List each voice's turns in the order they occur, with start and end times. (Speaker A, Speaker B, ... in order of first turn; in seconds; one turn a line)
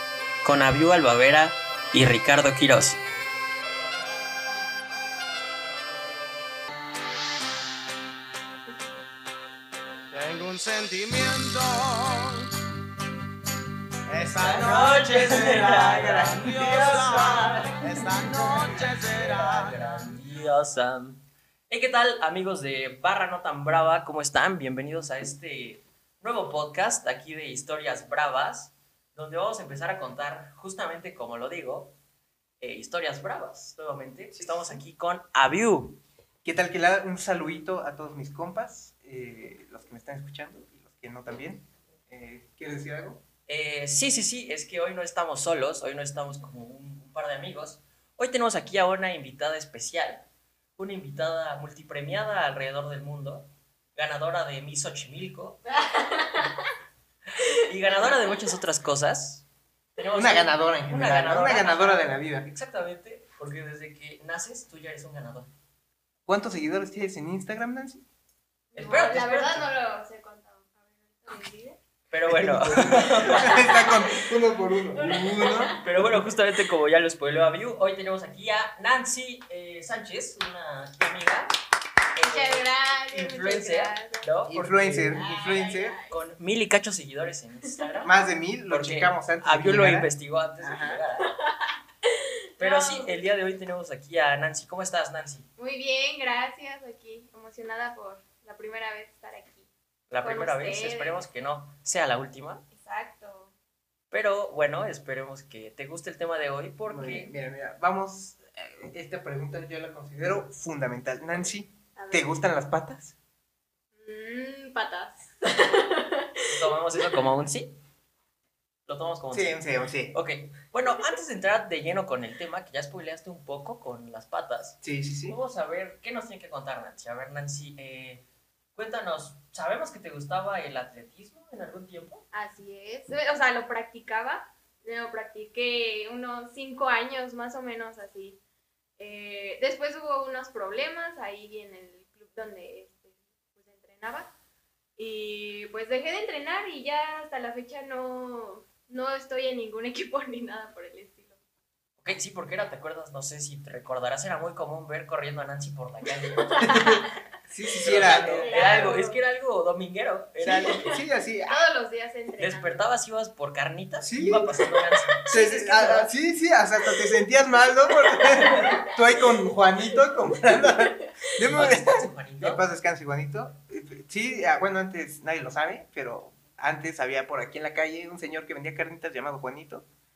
Speaker A: 0.4-3.0
Speaker B: 10.1-12.5
Speaker B: 14.1-20.1
Speaker C: 14.4-14.8
Speaker A: 14.4-32.0
Speaker C: 15.4-17.7
Speaker C: 18.4-18.8
Speaker A: 32.6-36.0
Speaker C: 34.4-34.8
Speaker C: 36.4-43.2
Speaker A: 43.5-50.3
Speaker A: 50.8-55.6
Speaker D: 55.7-56.7
Speaker A: 57.3-65.5
Speaker D: 57.5-58.4
Speaker C: 60.2-62.5
Speaker C: 66.3-68.0
Speaker D: 68.7-71.8
Speaker A: 68.8-69.7
Speaker A: 72.1-73.8
Speaker C: 72.3-75.8
Speaker D: 73.3-75.8
Speaker A: 75.8-81.5
Speaker A: 82.1-85.3
Speaker D: 82.2-84.3
Speaker C: 84.5-86.0
Speaker D: 85.0-86.2
Speaker A: 86.1-88.1
Speaker C: 88.0-91.0
Speaker A: 88.7-91.3
Speaker D: 91.2-93.2
Speaker A: 92.6-95.5
Speaker D: 95.6-99.7
Speaker A: 100.1-102.7
Speaker D: 100.2-101.2
Speaker D: 102.7-103.5
Speaker A: 104.1-107.3
Speaker C: 106.9-113.2
Speaker D: 112.0-112.3
Speaker D: 114.0-116.5
Speaker A: 116.5-117.8
Speaker A: 118.9-119.6
Speaker C: 119.3-120.2
Speaker A: 120.1-128.2
Speaker C: 124.8-125.4
Speaker A: 128.8-132.2
Speaker D: 132.3-138.4
Speaker D: 139.0-144.3
Speaker D: 145.0-151.4
Speaker A: 152.0-156.6
Speaker D: 156.2-157.2
Speaker C: 156.6-158.9
Speaker D: 157.8-159.2
Speaker A: 157.8-161.0
Speaker C: 160.4-161.6
Speaker D: 161.5-162.8
Speaker A: 162.4-166.1
Speaker C: 164.0-164.7
Speaker D: 164.7-165.2
Speaker C: 165.3-179.9
Speaker D: 167.8-169.3
Speaker D: 170.3-170.9
Speaker A: 171.4-172.6